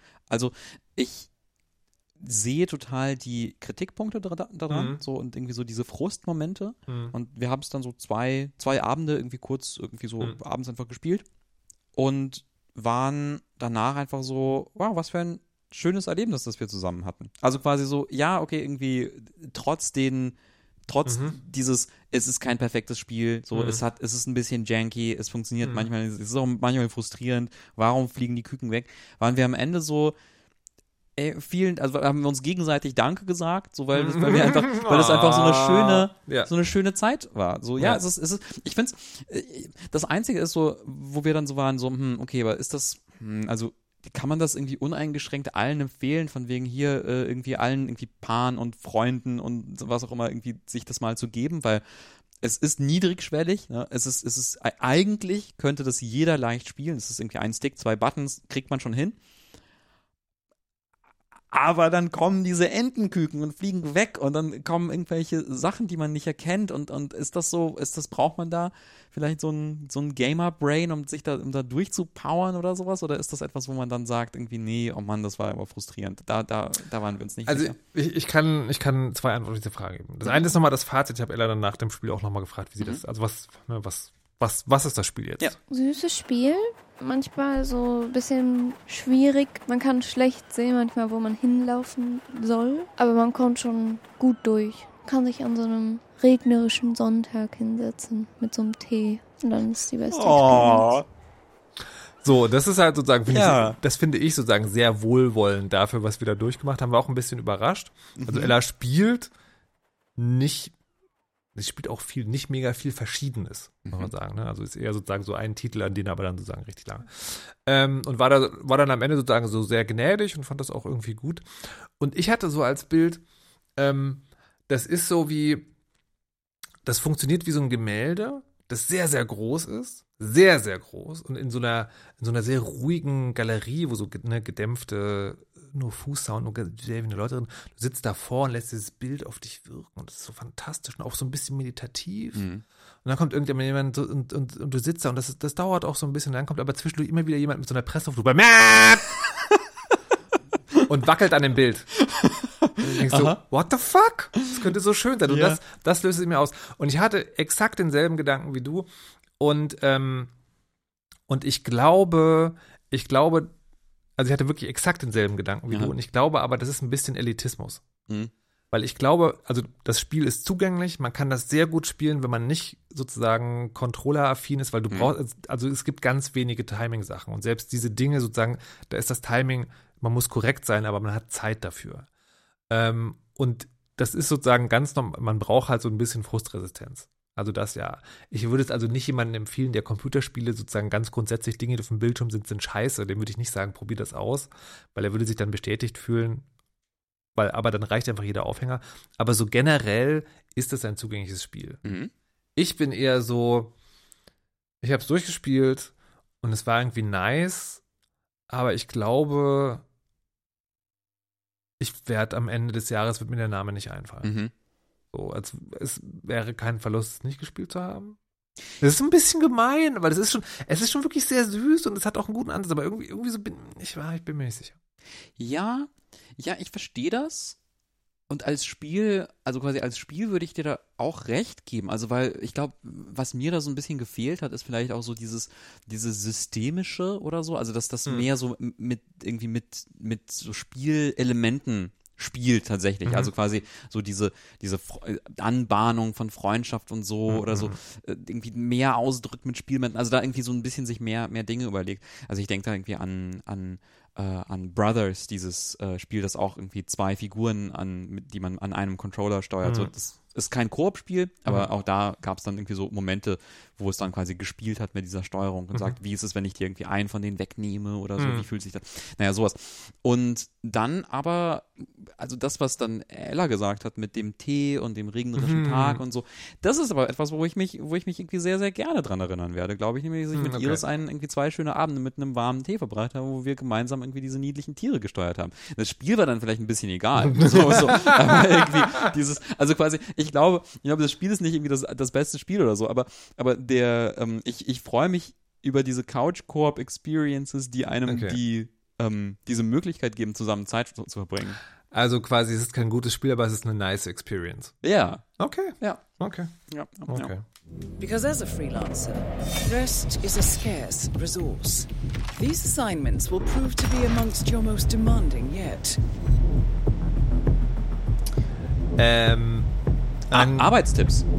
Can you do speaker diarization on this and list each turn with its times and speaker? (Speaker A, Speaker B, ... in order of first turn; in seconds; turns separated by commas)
Speaker A: 0.3-1.3, Speaker A: 2.2-11.2, Speaker B: 4.7-5.0, Speaker B: 6.9-7.1, Speaker A: 12.0-20.4, Speaker A: 20.9-30.1, Speaker B: 21.1-21.4, Speaker B: 23.5-23.8, Speaker A: 31.2-51.8, Speaker B: 33.9-36.5, Speaker A: 52.4-59.2, Speaker A: 61.5-77.8, Speaker B: 77.5-85.6, Speaker C: 85.7-100.9, Speaker A: 100.1-101.0, Speaker B: 102.2-109.3, Speaker A: 103.3-103.8, Speaker A: 108.2-108.5, Speaker B: 110.2-110.7, Speaker B: 111.5-121.5, Speaker B: 122.0-123.2, Speaker B: 123.8-125.7, Speaker B: 126.8-142.4, Speaker A: 142.3-142.6, Speaker B: 143.0-149.2, Speaker B: 150.9-151.9, Speaker A: 152.0-153.4, Speaker B: 152.8-158.9, Speaker A: 154.4-154.7, Speaker A: 155.3-155.6, Speaker B: 159.4-160.3, Speaker B: 161.3-163.5, Speaker B: 164.2-167.8, Speaker B: 168.7-182.1, Speaker B: 182.7-196.4, Speaker B: 197.3-201.8, Speaker A: 201.8-202.1, Speaker B: 202.6-203.7, Speaker B: 204.8-207.8, Speaker B: 208.5-209.8, Speaker B: 211.8-214.3, Speaker A: 214.2-214.5, Speaker B: 215.1-218.2, Speaker B: 218.8-224.8, Speaker A: 225.4-227.6, Speaker A: 228.3-301.6, Speaker B: 243.1-243.3, Speaker B: 247.3-247.8, Speaker B: 259.6-259.9, Speaker B: 268.2-268.5, Speaker B: 275.4-276.0, Speaker B: 280.4-280.8, Speaker B: 287.3-289.0, Speaker B: 298.1-298.4, Speaker B: 301.9-304.8, Speaker A: 304.8-305.2, Speaker B: 305.4-306.5, Speaker A: 306.7-307.3, Speaker B: 307.1-307.4, Speaker D: 308.0-316.0, Speaker B: 319.0-319.7, Speaker B: 320.3-320.8, Speaker A: 320.3-321.2